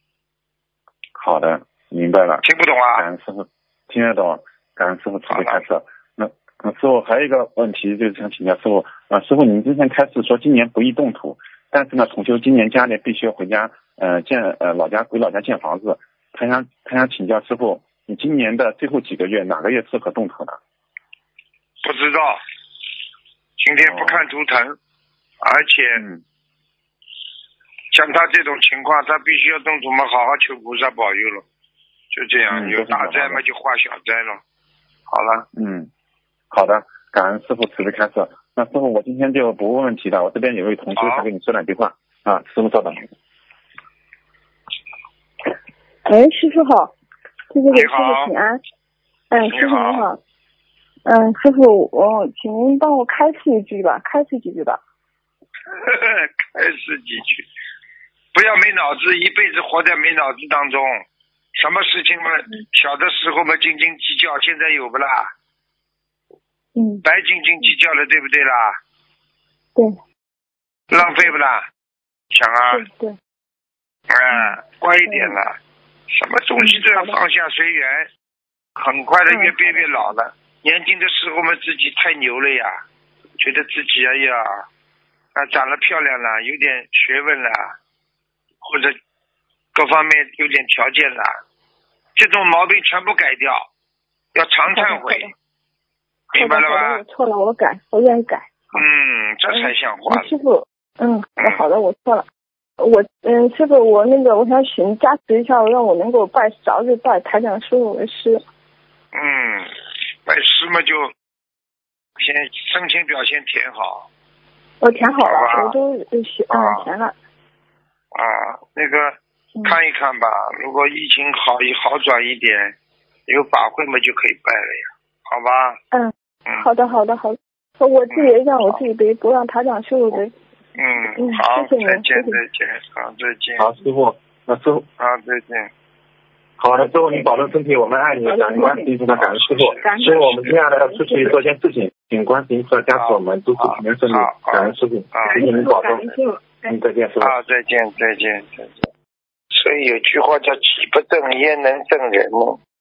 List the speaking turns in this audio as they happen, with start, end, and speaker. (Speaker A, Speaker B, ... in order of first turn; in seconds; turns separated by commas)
Speaker A: 1.2-2.4, Speaker B: 2.4-3.0, Speaker A: 3.0-20.6, Speaker B: 5.3-5.6, Speaker B: 21.8-22.4, Speaker B: 23.6-24.8, Speaker A: 23.9-24.2, Speaker B: 25.4-26.0, Speaker B: 27.9-31.4, Speaker B: 32.1-34.4, Speaker A: 32.5-33.4, Speaker B: 35.1-35.5, Speaker A: 35.5-35.9, Speaker A: 36.5-43.1, Speaker B: 40.9-41.3, Speaker C: 46.0-46.9, Speaker C: 47.5-48.6, Speaker B: 47.7-48.3, Speaker C: 49.3-50.2, Speaker B: 49.5-50.1, Speaker C: 51.0-54.8, Speaker B: 55.7-57.5, Speaker B: 58.3-61.0, Speaker B: 61.6-65.3, Speaker C: 66.8-67.0, Speaker B: 67.0-68.8, Speaker B: 70.9-71.7, Speaker C: 71.0-71.3, Speaker B: 72.3-72.8, Speaker C: 72.7-73.1, Speaker B: 74.1-75.5, Speaker C: 74.3-75.3, Speaker B: 76.1-78.1, Speaker C: 76.6-77.2, Speaker B: 78.8-82.8, Speaker C: 79.3-79.8, Speaker B: 83.4-84.6, Speaker B: 85.3-87.7, Speaker B: 88.6-89.0, Speaker B: 89.7-91.3, Speaker B: 92.2-93.7, Speaker B: 94.3-95.3, Speaker C: 94.7-95.3, Speaker B: 96.3-97.0, Speaker C: 96.3-98.5, Speaker B: 98.7-100.3, Speaker C: 99.5-102.2, Speaker B: 101.4-101.6, Speaker C: 102.8-108.4, Speaker B: 109.1-109.7, Speaker B: 110.2-111.1, Speaker B: 112.2-114.1, Speaker C: 114.8-117.1, Speaker B: 115.2-115.7, Speaker B: 116.5-116.8, Speaker B: 118.1-122.7, Speaker B: 123.3-125.8, Speaker C: 125.9-130.3, Speaker B: 128.1-128.8, Speaker B: 130.8-133.7, Speaker C: 131.2-132.4, Speaker A: 133.6-134.8, Speaker B: 135.0-135.7, Speaker A: 136.6-147.3, Speaker C: 138.2-138.9, Speaker B: 139.1-140.6, Speaker C: 139.8-140.2, Speaker B: 142.9-145.6, Speaker C: 145.3-146.2, Speaker B: 147.2-148.8, Speaker B: 149.5-152.6